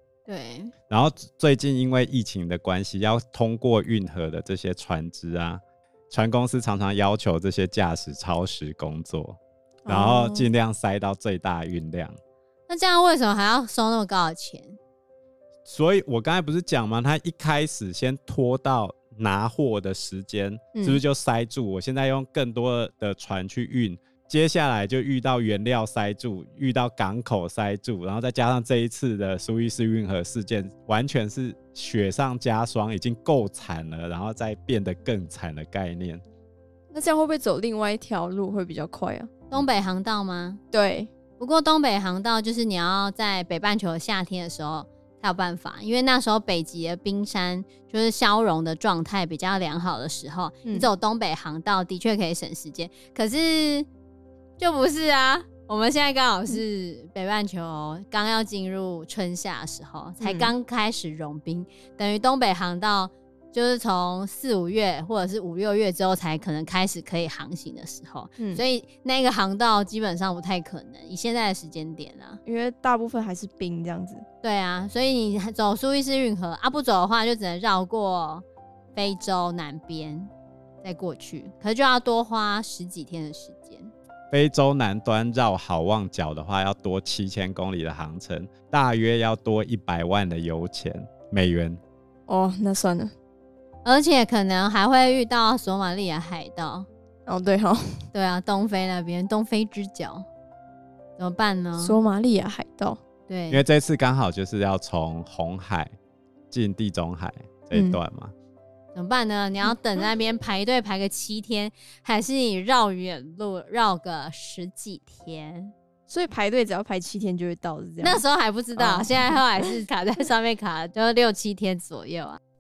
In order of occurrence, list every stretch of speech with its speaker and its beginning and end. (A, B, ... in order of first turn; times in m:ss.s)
0:00.3-0:00.7 A
0:00.9-0:12.2 B
0:09.9-0:10.5 C
0:12.7-0:14.8 A
0:15.7-0:36.2 B
0:20.8-0:21.0 C
0:36.9-0:39.3 C
0:39.5-0:40.6 A
0:40.7-0:41.1 C
0:41.4-0:53.9 A
0:54.6-1:12.4 A
1:00.2-1:00.5 C
1:12.4-1:14.2 C
1:14.4-1:20.3 A
1:20.8-1:23.9 A
1:24.3-1:31.8 B
1:32.3-1:33.1 C
1:33.8-1:36.9 A
1:37.3-1:37.8 C
1:38.1-1:40.3 A
1:41.2-1:42.0 A
1:41.8-1:43.0 C
1:43.3-1:43.6 A
1:43.5-1:45.9 B
1:46.5-1:48.3 B
1:47.7-1:48.0 C
1:49.0-1:55.7 A
1:56.1-1:58.2 C
1:58.0-2:02.4 A
1:58.8-1:59.7 C